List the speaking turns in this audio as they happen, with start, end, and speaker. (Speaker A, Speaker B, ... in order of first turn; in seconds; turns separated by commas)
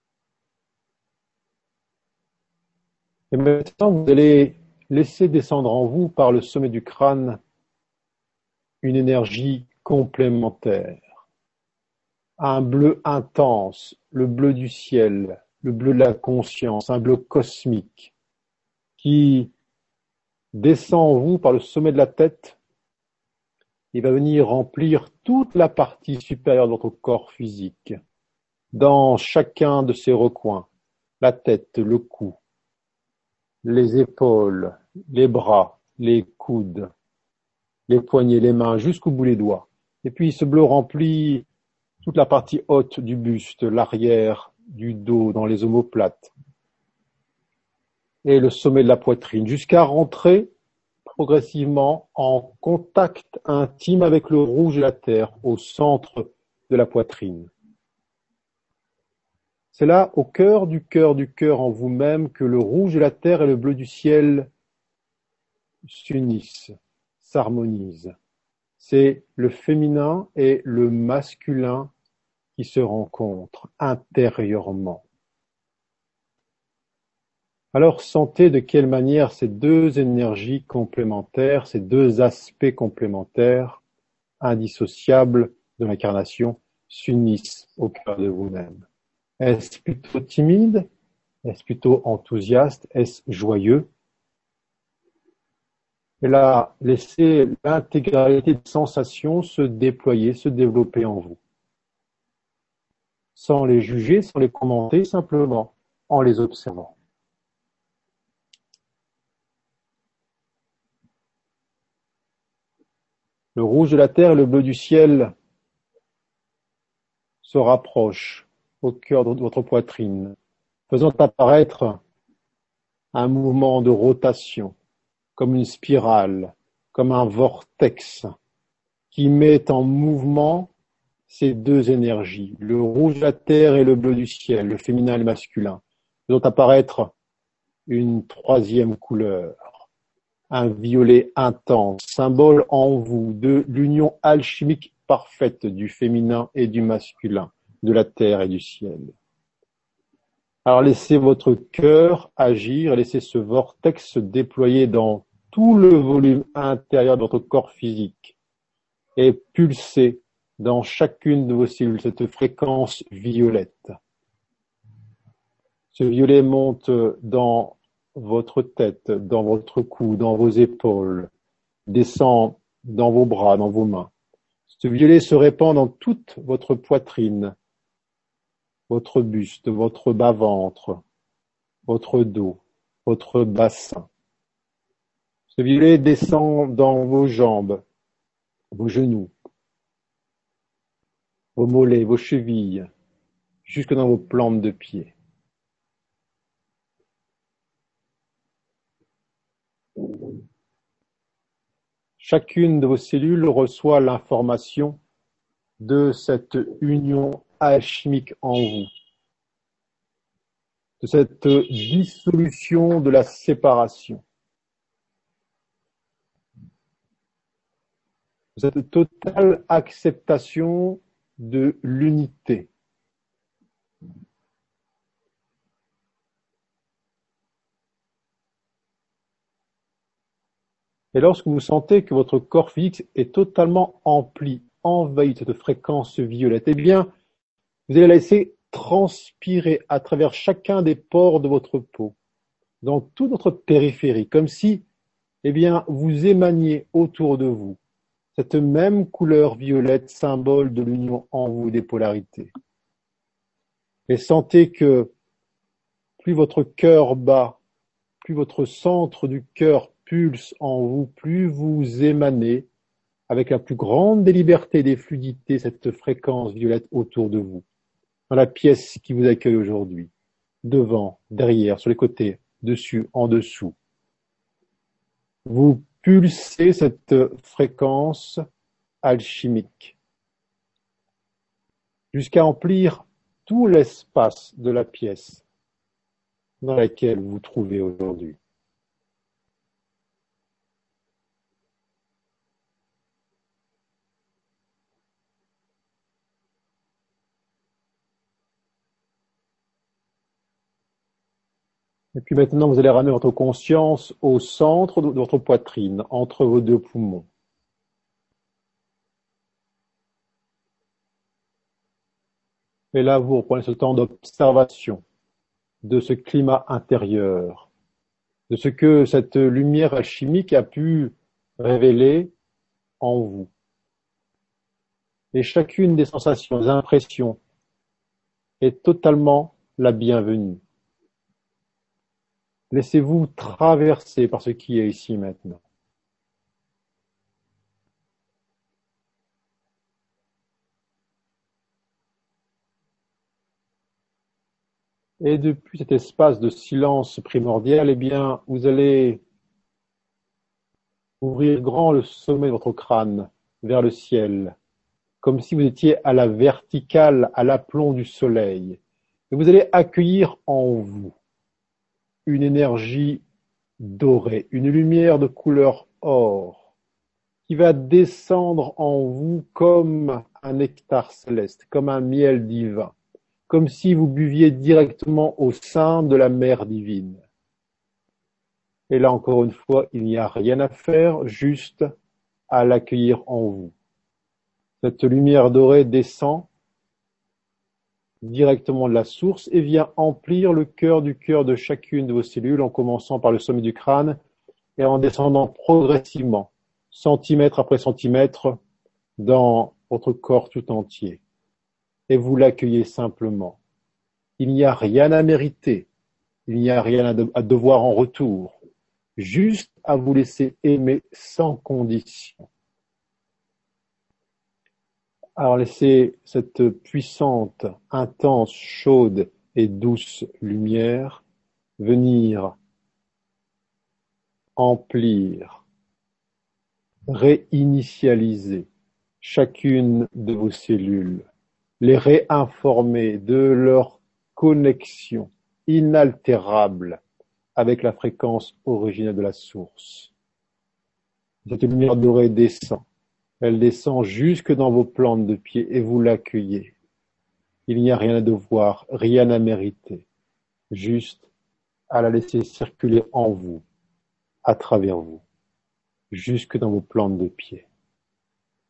Speaker A: 3.3-7.4, Speaker A: 8.8-11.0, Speaker A: 12.4-18.1, Speaker A: 19.0-19.5, Speaker A: 20.5-22.6, Speaker A: 23.9-27.9, Speaker A: 28.7-30.7, Speaker A: 31.2-32.4, Speaker A: 33.6-36.9, Speaker A: 37.9-41.5, Speaker A: 42.0-46.3, Speaker A: 48.2-50.5, Speaker A: 51.0-57.5, Speaker A: 59.7-64.5, Speaker A: 65.8-68.1, Speaker A: 68.8-71.9, Speaker A: 72.6-75.0, Speaker A: 77.7-83.8, Speaker A: 84.4-88.8, Speaker A: 89.4-90.9, Speaker A: 91.4-93.8, Speaker A: 96.2-101.4, Speaker A: 103.3-106.9, Speaker A: 113.5-115.3, Speaker A: 117.4-120.3, Speaker A: 120.9-122.0, Speaker A: 123.1-124.7, Speaker A: 125.4-128.3, Speaker A: 129.1-130.7, Speaker A: 131.3-137.1, Speaker A: 137.9-139.7, Speaker A: 140.5-149.1, Speaker A: 150.7-158.3, Speaker A: 159.2-163.9, Speaker A: 165.9-171.3, Speaker A: 171.9-174.1, Speaker A: 174.7-177.5, Speaker A: 178.9-181.0, Speaker A: 181.9-184.0, Speaker A: 185.5-187.8, Speaker A: 188.7-189.3, Speaker A: 191.6-192.9, Speaker A: 193.7-195.1, Speaker A: 202.2-205.0, Speaker A: 205.8-208.9, Speaker A: 211.0-214.2, Speaker A: 218.6-222.7, Speaker A: 231.1-237.1, Speaker A: 237.9-242.2, Speaker A: 242.8-244.8, Speaker A: 245.4-247.8, Speaker A: 248.3-252.5, Speaker A: 254.1-255.1, Speaker A: 256.2-257.6, Speaker A: 258.2-262.7, Speaker A: 263.3-267.6, Speaker A: 268.3-270.1, Speaker A: 270.6-273.7, Speaker A: 275.4-278.4, Speaker A: 279.0-279.9, Speaker A: 282.1-285.4, Speaker A: 286.6-288.4, Speaker A: 302.1-307.3, Speaker A: 312.9-315.0, Speaker A: 315.8-317.7, Speaker A: 318.5-322.3, Speaker A: 323.0-323.5, Speaker A: 325.3-327.4, Speaker A: 328.6-330.6, Speaker A: 332.7-335.6, Speaker A: 345.2-349.2, Speaker A: 351.2-354.5, Speaker A: 355.2-358.8, Speaker A: 359.3-361.1, Speaker A: 362.2-363.2, Speaker A: 363.8-366.6, Speaker A: 367.5-372.9, Speaker A: 373.5-377.2, Speaker A: 378.9-381.9, Speaker A: 382.5-383.7, Speaker A: 384.8-386.5, Speaker A: 388.2-394.2, Speaker A: 394.8-398.6, Speaker A: 399.2-401.2, Speaker A: 402.1-403.6, Speaker A: 404.4-405.9, Speaker A: 406.5-408.6, Speaker A: 409.2-412.4, Speaker A: 415.4-421.2, Speaker A: 421.8-422.6, Speaker A: 424.6-425.6, Speaker A: 427.1-428.7, Speaker A: 429.2-431.2, Speaker A: 431.8-437.0, Speaker A: 437.6-440.1, Speaker A: 441.4-442.8, Speaker A: 443.4-446.7, Speaker A: 447.7-450.1, Speaker A: 450.7-451.2, Speaker A: 451.9-453.6, Speaker A: 454.4-455.2, Speaker A: 456.1-457.6